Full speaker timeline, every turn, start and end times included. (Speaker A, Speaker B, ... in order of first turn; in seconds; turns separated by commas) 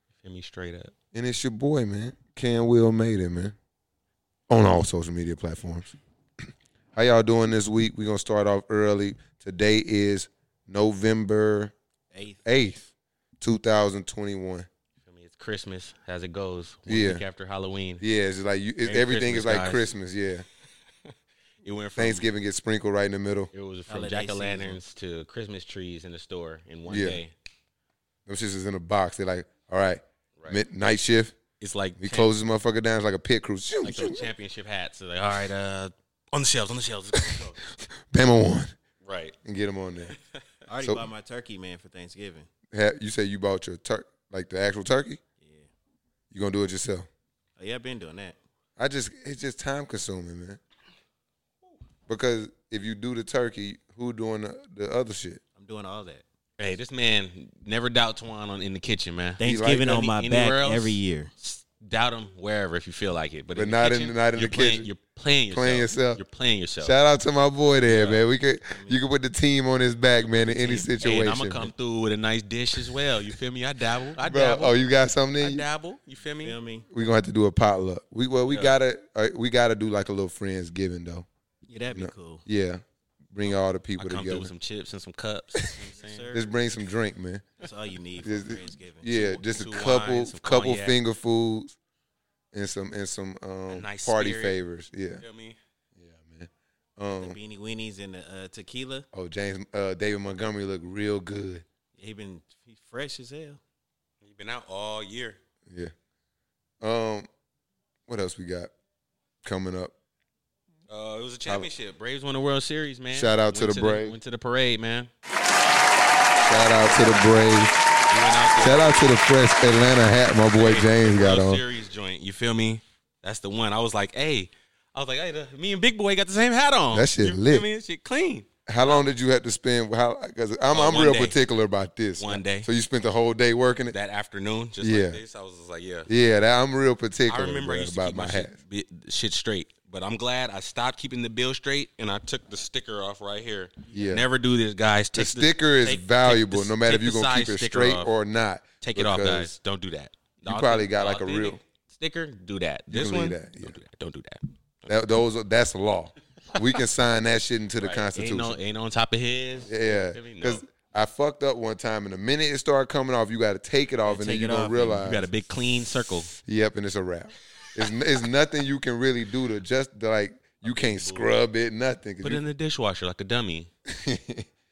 Speaker A: 0.2-0.9, Speaker B: 1.1-3.5, Speaker B: 4.5-6.0, Speaker B: 6.9-11.7, Speaker C: 12.1-12.4, Speaker B: 12.4-12.9, Speaker B: 13.4-14.7, Speaker A: 15.0-18.0, Speaker B: 16.9-17.2, Speaker B: 18.0-20.4, Speaker A: 18.8-19.9, Speaker A: 21.6-22.2, Speaker B: 22.0-23.5, Speaker A: 23.5-27.3, Speaker C: 23.9-24.8, Speaker B: 26.9-27.2, Speaker B: 28.3-31.4, Speaker A: 30.4-30.6, Speaker A: 31.6-32.3, Speaker B: 32.0-34.3, Speaker A: 33.8-37.6, Speaker B: 37.1-38.7, Speaker A: 39.0-39.4, Speaker B: 39.4-40.1, Speaker A: 40.0-40.4, Speaker C: 40.7-42.5, Speaker B: 40.8-41.0, Speaker B: 42.7-45.2, Speaker C: 45.4-45.7, Speaker B: 46.3-47.1, Speaker C: 47.6-48.4, Speaker B: 48.8-50.6, Speaker B: 52.1-55.4, Speaker C: 55.6-56.2, Speaker A: 56.6-66.9, Speaker C: 59.4-61.3, Speaker B: 59.4-59.9, Speaker B: 63.5-64.9, Speaker B: 65.5-66.2, Speaker B: 66.8-71.7, Speaker A: 67.9-68.2, Speaker C: 68.6-69.0, Speaker A: 70.3-74.8, Speaker B: 74.2-75.6, Speaker A: 75.4-76.5, Speaker C: 76.4-76.9, Speaker B: 76.9-81.2, Speaker A: 78.4-78.8, Speaker C: 81.7-82.4, Speaker B: 81.9-84.5, Speaker A: 84.0-86.3, Speaker C: 85.9-86.5, Speaker B: 86.3-87.5, Speaker C: 87.6-89.1, Speaker B: 88.2-91.8, Speaker A: 89.1-91.0, Speaker B: 92.5-95.2, Speaker A: 93.7-94.6, Speaker A: 95.2-95.6, Speaker B: 96.0-97.4, Speaker C: 97.2-99.0, Speaker B: 99.1-101.6, Speaker C: 102.0-103.6, Speaker A: 104.2-105.4, Speaker B: 106.8-107.3, Speaker B: 108.1-108.7, Speaker B: 109.4-109.9, Speaker A: 110.9-115.1, Speaker B: 113.1-114.2, Speaker B: 116.4-117.8, Speaker A: 118.1-119.1, Speaker B: 118.6-121.6, Speaker A: 120.5-129.1, Speaker B: 126.9-127.7, Speaker B: 128.7-133.9, Speaker A: 130.7-131.4, Speaker A: 132.2-132.7, Speaker A: 133.9-136.1, Speaker B: 134.8-135.2, Speaker B: 136.1-138.6, Speaker A: 137.3-148.1, Speaker B: 143.9-144.2, Speaker B: 145.1-149.5, Speaker A: 148.8-154.4, Speaker B: 150.4-151.6, Speaker B: 152.9-153.8, Speaker B: 154.9-158.6, Speaker A: 157.8-160.6, Speaker B: 159.7-165.3, Speaker C: 164.1-165.1, Speaker A: 165.0-166.3, Speaker B: 165.8-172.4, Speaker A: 170.6-171.3, Speaker A: 172.2-173.7, Speaker B: 173.8-174.5